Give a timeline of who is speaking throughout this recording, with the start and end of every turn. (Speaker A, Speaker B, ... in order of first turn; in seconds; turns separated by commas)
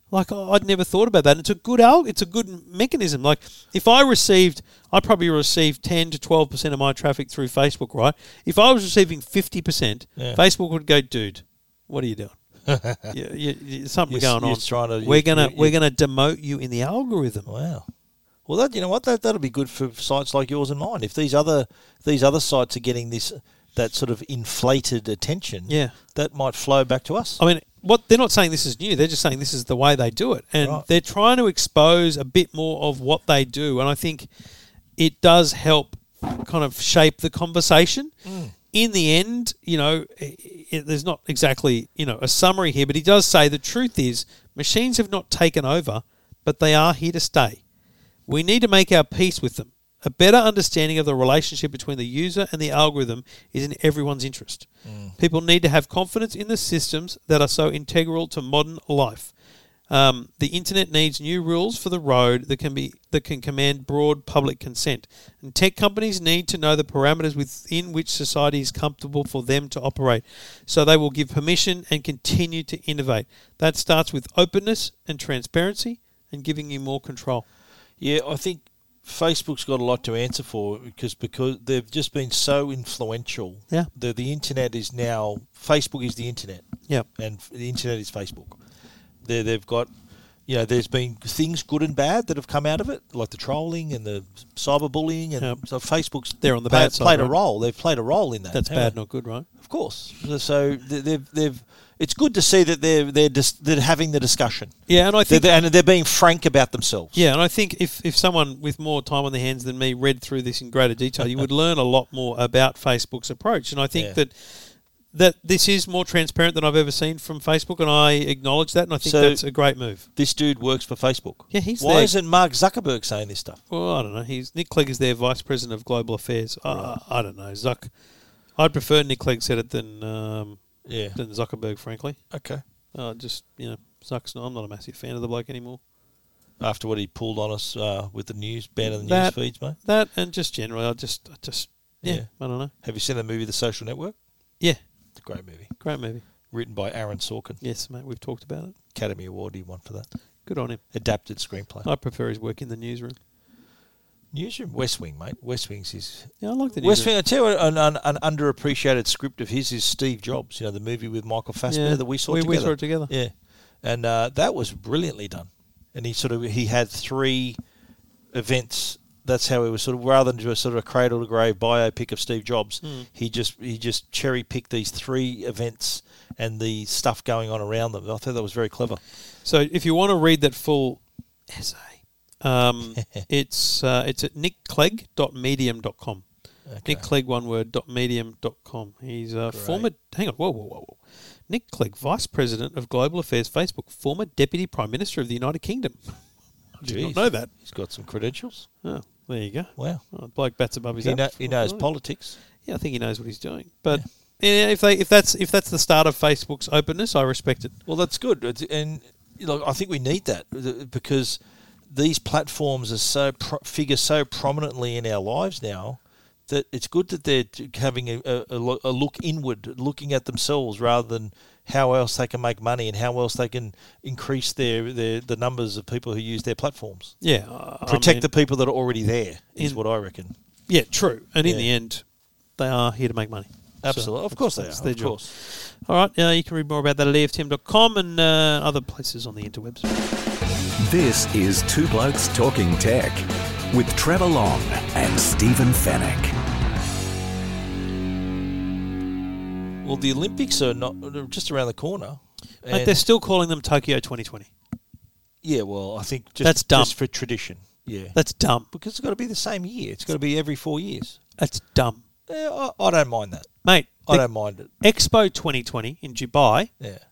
Speaker A: 0.1-12.4, Speaker B: 12.7-13.1, Speaker A: 13.1-17.5, Speaker B: 14.1-15.8, Speaker B: 17.5-17.9, Speaker B: 18.4-27.4, Speaker A: 25.7-25.9, Speaker A: 27.4-34.3, Speaker B: 30.6-30.9, Speaker A: 35.0-38.1, Speaker B: 38.2-38.5, Speaker A: 38.7-47.6, Speaker A: 48.3-54.7, Speaker B: 54.9-55.2, Speaker A: 55.2-59.3, Speaker A: 59.9-77.5, Speaker B: 78.0-86.7, Speaker B: 87.2-88.6, Speaker B: 89.2-89.9, Speaker B: 90.5-99.0, Speaker A: 96.4-97.4, Speaker A: 98.5-99.5, Speaker B: 99.6-107.2, Speaker A: 104.9-105.5, Speaker A: 107.1-120.1, Speaker B: 119.0-119.4, Speaker B: 120.0-123.6, Speaker A: 121.5-122.1, Speaker A: 123.7-127.9, Speaker B: 126.7-127.0, Speaker A: 128.6-132.2, Speaker B: 130.9-131.2, Speaker B: 132.3-132.6, Speaker A: 132.9-135.8, Speaker B: 136.6-139.8, Speaker A: 138.8-142.7, Speaker B: 142.0-144.2, Speaker B: 145.2-145.8, Speaker A: 145.8-146.2, Speaker B: 146.5-147.6, Speaker A: 147.6-148.8, Speaker B: 148.9-150.1, Speaker A: 150.4-150.8, Speaker B: 150.9-151.9, Speaker A: 151.8-153.2, Speaker B: 154.3-167.6, Speaker A: 156.4-157.1, Speaker A: 161.7-163.1, Speaker B: 168.3-179.0, Speaker A: 172.8-173.1, Speaker A: 179.4-186.2, Speaker B: 183.0-183.2, Speaker B: 186.7-187.1, Speaker A: 186.8-196.2, Speaker B: 189.5-189.9, Speaker A: 196.8-197.5, Speaker B: 196.8-198.7, Speaker A: 198.8-201.9, Speaker B: 199.8-200.0, Speaker B: 201.0-202.4, Speaker A: 202.4-207.8, Speaker B: 207.9-227.1, Speaker A: 227.2-228.3, Speaker B: 227.9-230.3, Speaker A: 230.7-232.0, Speaker B: 231.4-231.7, Speaker A: 232.6-239.9, Speaker B: 233.8-235.3, Speaker C: 240.8-246.3, Speaker B: 249.8-253.0, Speaker A: 252.7-254.5, Speaker B: 255.4-258.2, Speaker A: 256.4-256.9, Speaker A: 258.1-258.7, Speaker B: 258.7-261.2, Speaker A: 261.4-262.0, Speaker B: 262.3-263.5, Speaker A: 263.6-264.3, Speaker B: 264.1-264.7, Speaker A: 264.8-266.7